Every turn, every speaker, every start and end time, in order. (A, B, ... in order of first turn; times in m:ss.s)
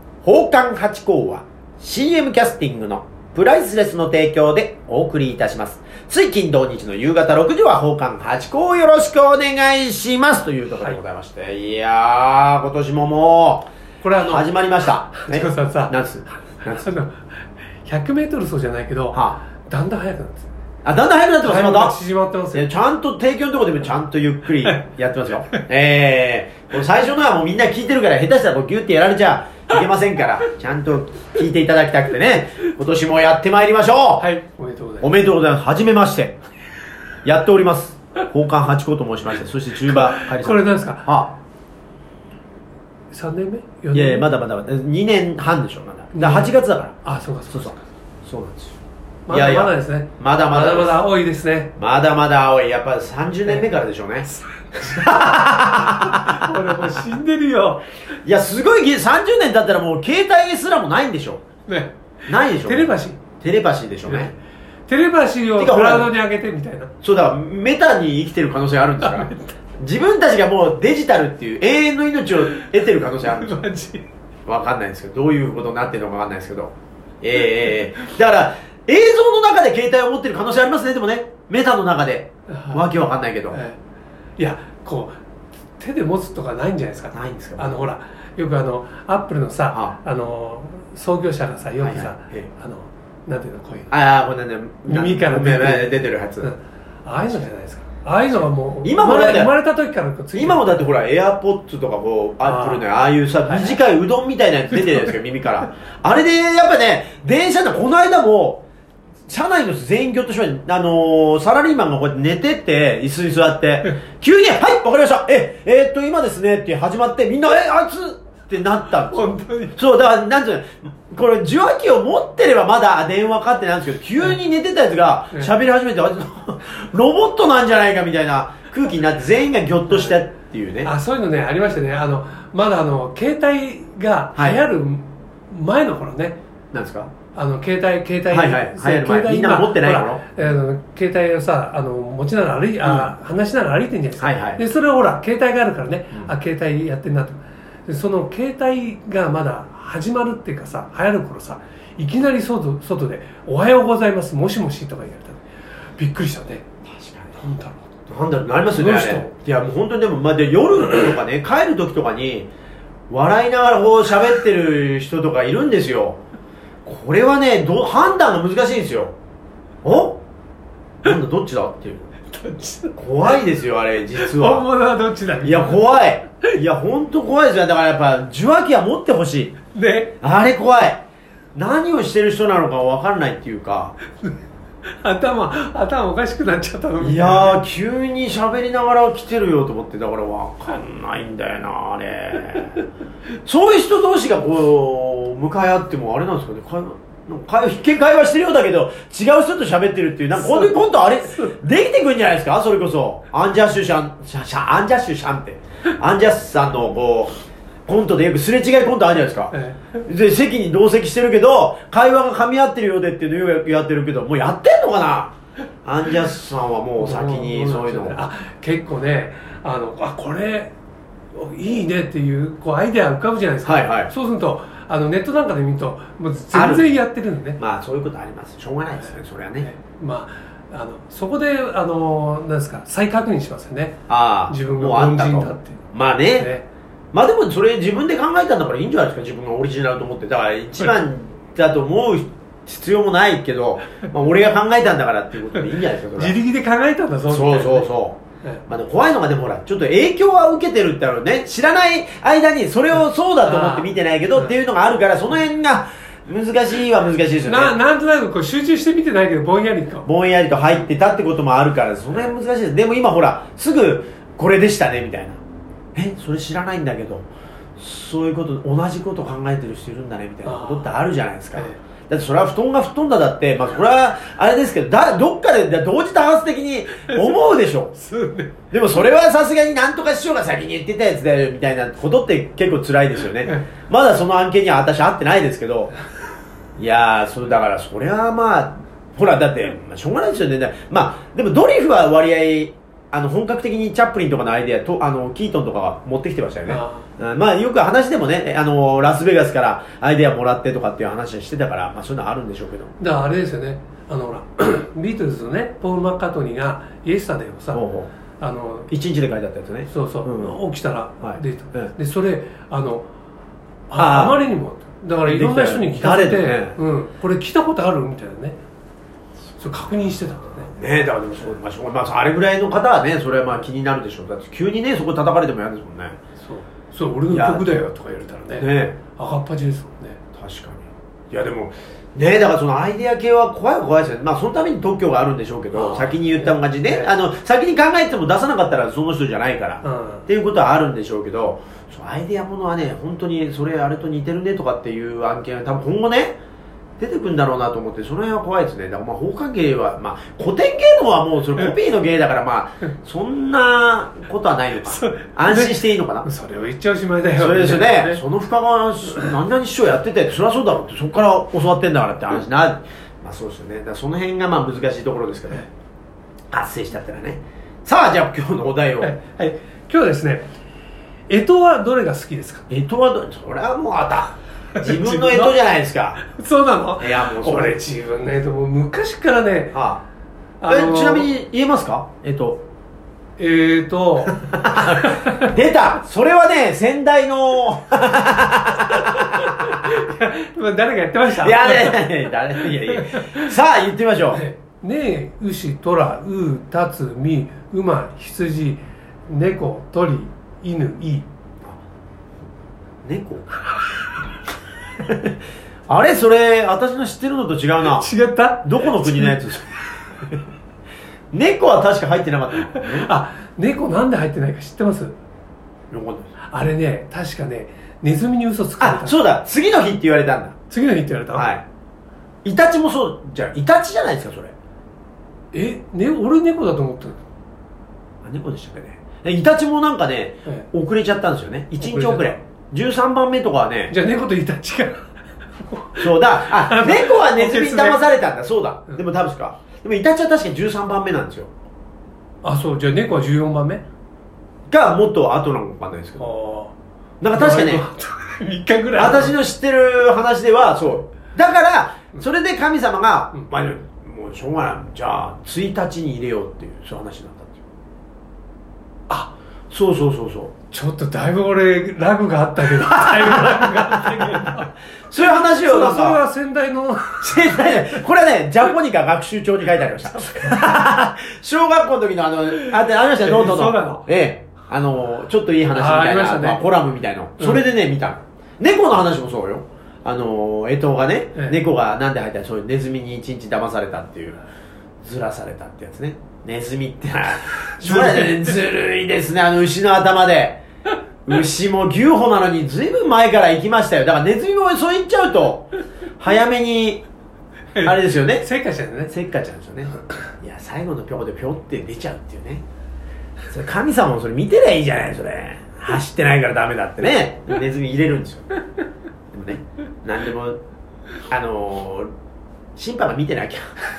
0:00.2-0:13.7 A
0:14.0-0:14.5 B
0:14.2-0:16.9 A
0:15.1-0:15.9 B
0:16.6-0:17.3 B
0:17.8-0:20.5 B
0:19.1-0:19.4 A
0:20.8-0:22.0 A
0:21.4-0:22.6 B
0:22.5-0:34.3 A
0:34.2-0:35.1 B
0:35.0-0:36.4 A
0:37.2-0:41.4 A
0:39.8-0:41.1 B
0:43.1-0:44.3 B
0:43.9-0:47.0 A
0:46.1-0:46.5 B
0:47.0-0:47.8 B
0:48.2-0:48.8 A
0:49.3-0:51.7 B
0:49.3-0:51.0 A
0:51.8-0:57.0 A
0:54.8-0:55.2 B
0:55.7-0:57.8 B
0:58.2-1:01.4 A
1:01.7-1:02.0 B
1:02.3-1:04.3 A
1:02.6-1:03.2 B
1:04.9-1:06.9 B
1:05.6-1:06.1 A
1:07.0-1:13.7 A
1:09.0-1:09.5 B
1:13.0-1:14.0 B
1:14.5-1:23.6 A
1:22.5-1:22.9 B
1:23.5-1:23.8 B
1:24.4-1:25.1 B
1:25.8-1:33.9 B
1:27.1-1:27.8 A
1:31.8-1:32.5 A
1:33.9-1:36.5 A
1:34.9-1:40.7 B
1:38.8-1:39.5 A
1:40.3-1:48.6 A
1:42.4-1:42.8 B
1:43.4-1:43.8 B
1:44.7-1:45.1 B
1:49.3-2:10.9 A
1:59.0-1:59.8 B
2:09.9-2:10.2 B
2:10.8-2:16.4 B
2:14.4-2:14.6 A
2:16.7-2:17.1 A
2:17.3-2:35.4 B
2:18.3-2:20.2 A
2:22.8-2:23.1 A
2:24.2-2:24.6 A
2:36.0-2:36.6 B
2:36.9-2:37.4 A
2:37.4-2:37.9 B
2:38.1-2:42.5 A
2:38.7-2:39.3 B
2:43.1-2:46.2 A
2:46.8-2:49.1 A
2:49.8-2:50.2 A
2:51.0-2:52.2 A
2:52.3-2:53.4 B
2:53.0-2:54.7 A
2:54.2-2:55.8 B
2:55.4-2:59.6 A
2:59.7-3:00.1 B
3:00.2-3:04.0 A
3:05.0-3:07.6 B
3:07.0-3:12.8 A
3:13.4-3:27.4 A
3:20.4-3:21.5 B
3:27.9-3:38.2 A
3:29.5-3:30.0 B
3:37.0-3:40.7 B
3:41.3-3:47.6 B
3:43.6-3:44.1 A
3:46.5-3:47.0 A
3:47.6-3:49.7 A
3:49.0-3:55.8 B
3:54.1-3:56.5 A
3:56.4-3:56.6 B
3:57.1-4:06.4 A
4:06.2-4:07.9 B
4:07.3-4:17.7 A
4:13.4-4:14.5 B
4:17.4-4:20.1 B
4:20.0-4:25.4 A
4:25.9-4:37.9 A
4:30.4-4:30.9 B
4:37.0-4:38.6 B
4:38.7-4:45.9 A
4:46.8-5:03.0 A
4:56.7-4:57.1 B
5:03.0-5:07.8 B
5:07.7-5:08.1 A
5:08.4-5:08.9 B
5:08.9-5:10.6 A
5:09.9-5:13.1 B
5:11.2-5:11.9 A
5:13.9-5:18.6 B
5:14.0-5:14.4 A
5:15.2-5:16.8 A
5:19.6-5:20.7 B
5:20.7-5:26.2 A
5:26.4-5:30.2 B
5:27.3-5:27.6 A
5:28.6-5:29.0 A
5:30.3-5:46.4 A
5:35.7-5:37.1 B
5:39.8-5:40.2 B
5:47.0-5:56.3 A
5:54.8-5:58.2 B
5:57.4-6:05.7 A
6:06.5-6:09.1 A
6:09.0-6:10.5 B
6:11.3-6:12.6 B
6:12.7-6:16.2 A
6:14.8-6:15.5 B
6:16.2-6:19.8 B
6:17.0-6:17.8 A
6:19.7-6:20.0 A
6:20.6-6:21.3 B
6:20.7-6:22.6 A
6:23.4-6:25.5 B
6:24.4-6:29.8 A
6:28.9-6:32.1 B
6:31.3-6:34.4 A
6:32.6-6:33.5 B
6:34.3-6:41.3 B
6:43.0-6:43.7 A
6:45.0-6:45.4 A
6:45.9-6:48.1 A
6:47.9-6:49.4 B
6:48.6-6:50.4 A
6:51.3-6:53.1 A
6:52.7-6:55.2 B
6:55.9-6:56.3 A
6:56.5-6:59.1 B
6:58.8-7:00.6 A
7:00.7-7:01.5 B
7:01.3-7:01.6 A
7:02.4-7:04.5 A
7:05.5-7:07.2 B
7:08.2-7:13.9 A
7:11.8-7:12.3 B
7:13.9-7:18.1 B
7:16.0-7:21.5 A
7:22.4-7:23.8 B
7:24.7-7:26.2 A
7:26.2-7:26.7 B
7:27.2-7:27.8 A
7:27.3-7:29.3 B
7:29.0-7:37.6 A
7:39.7-7:40.5 A
7:40.7-7:47.8 B
7:42.8-7:46.2 A
7:47.2-8:04.4 A
7:50.3-7:50.6 B
7:53.2-7:54.1 B
7:55.7-7:56.6 B
8:05.0-8:10.6 A
8:07.8-8:08.4 B
8:11.2-8:17.0 A
8:17.7-8:19.1 B
8:17.8-8:18.5 A
8:19.1-8:22.6 A
8:23.5-8:28.5 A
8:29.3-8:30.6 A
8:31.3-8:32.1 A
8:32.8-8:33.7 A